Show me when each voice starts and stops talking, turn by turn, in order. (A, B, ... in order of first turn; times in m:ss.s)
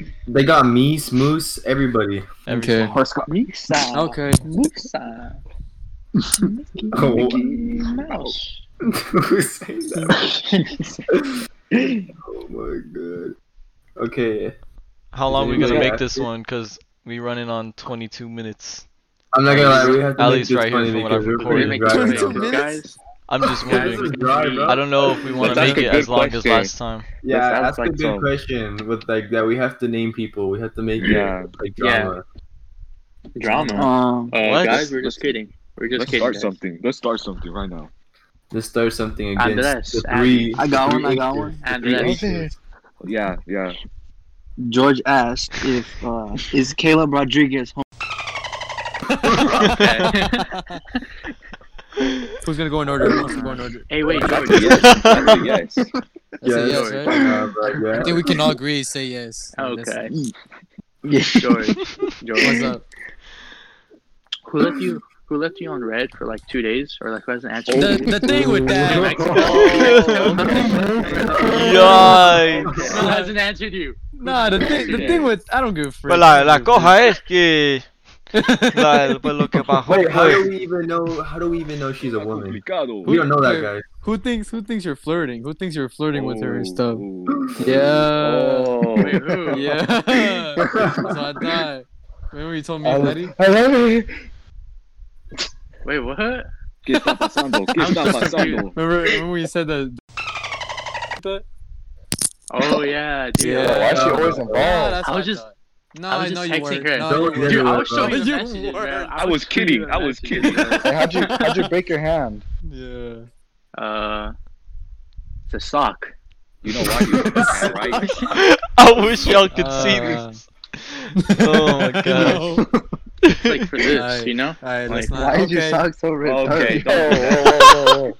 0:00.3-0:02.3 A
0:02.5-0:03.0 B
0:02.5-0:03.0 C
0:02.9-0:03.3 D
0:03.2-0:05.4 E
0:03.9-0:04.5 C
0:06.4-0:08.6 E
0:06.9-0:07.4 A
0:07.4-0:08.3 F
0:08.8-0:10.2 A
0:12.2-0:13.3 A
0:14.0-0:14.6 A
0:15.1-0:18.9 B
0:15.3-0:16.3 A
0:19.3-0:22.5 A
0:19.5-0:22.0 B
0:19.6-0:20.0 E
0:21.4-0:23.0 E
0:21.8-0:22.8 C
0:23.3-0:24.1 B
0:23.6-0:24.8 E
0:23.6-0:25.8 A
0:24.7-0:27.1 B
0:25.4-0:26.7 G
0:25.5-0:25.8 C
0:27.2-0:32.2 A
0:27.2-0:28.3 G
0:31.0-0:31.5 G
0:31.8-0:32.2 E
0:33.4-0:36.5 E
0:33.7-0:34.4 D
0:34.4-0:34.9 B
0:34.5-0:35.4 G
0:35.9-0:37.9 G
0:38.5-0:42.5 A
0:39.4-0:40.6 E
0:40.6-0:41.6 D
0:41.6-0:42.3 E
0:41.9-0:42.5 F
0:43.0-0:43.8 G
0:44.6-0:47.8 D
0:49.6-0:50.5 E
0:49.7-0:50.0 B
0:49.8-0:50.8 C
0:52.4-0:53.8 C
0:53.2-0:55.6 E
0:54.1-0:55.8 G
0:54.7-0:55.3 B
0:56.4-0:57.3 C
0:56.4-0:58.3 A
0:56.6-0:58.0 E
0:57.9-1:00.0 C
0:59.5-1:00.1 E
1:01.0-1:01.8 D
1:01.4-1:02.7 E
1:02.4-1:02.8 C
1:04.5-1:15.1 E
1:07.7-1:08.1 G
1:07.7-1:09.4 C
1:09.3-1:13.1 G
1:09.5-1:10.3 B
1:11.5-1:12.7 B
1:11.6-1:12.3 C
1:12.9-1:13.3 C
1:14.2-1:17.0 C
1:14.6-1:15.3 G
1:16.1-1:17.9 B
1:18.3-1:19.2 C
1:18.7-1:20.5 B
1:19.9-1:23.8 A
1:22.1-1:23.2 G
1:23.0-1:27.0 C
1:26.1-1:29.6 G
1:27.3-1:27.6 A
1:27.6-1:28.8 C
1:29.0-1:29.8 E
1:29.5-1:33.3 C
1:30.6-1:31.1 A
1:32.8-1:34.1 F
1:35.8-1:36.5 E
1:36.8-1:38.8 G
1:37.7-1:38.7 E
1:38.7-1:40.0 C
1:41.2-1:41.4 C
1:42.5-1:45.4 E
1:43.4-1:49.1 C
1:43.6-1:45.0 F
1:46.1-1:51.3 E
1:47.0-1:48.2 A
1:49.2-1:50.9 G
1:50.4-1:51.7 C
1:50.8-1:52.4 F
1:52.6-1:53.3 C
1:53.8-1:54.3 E
1:55.5-1:56.1 E
1:56.6-1:58.3 G
1:58.3-2:02.5 B
1:59.5-2:00.4 C
2:01.3-2:02.6 C
2:03.2-2:03.6 B
2:03.4-2:05.3 E
2:03.9-2:05.8 C
2:05.1-2:08.1 D
2:06.2-2:07.8 G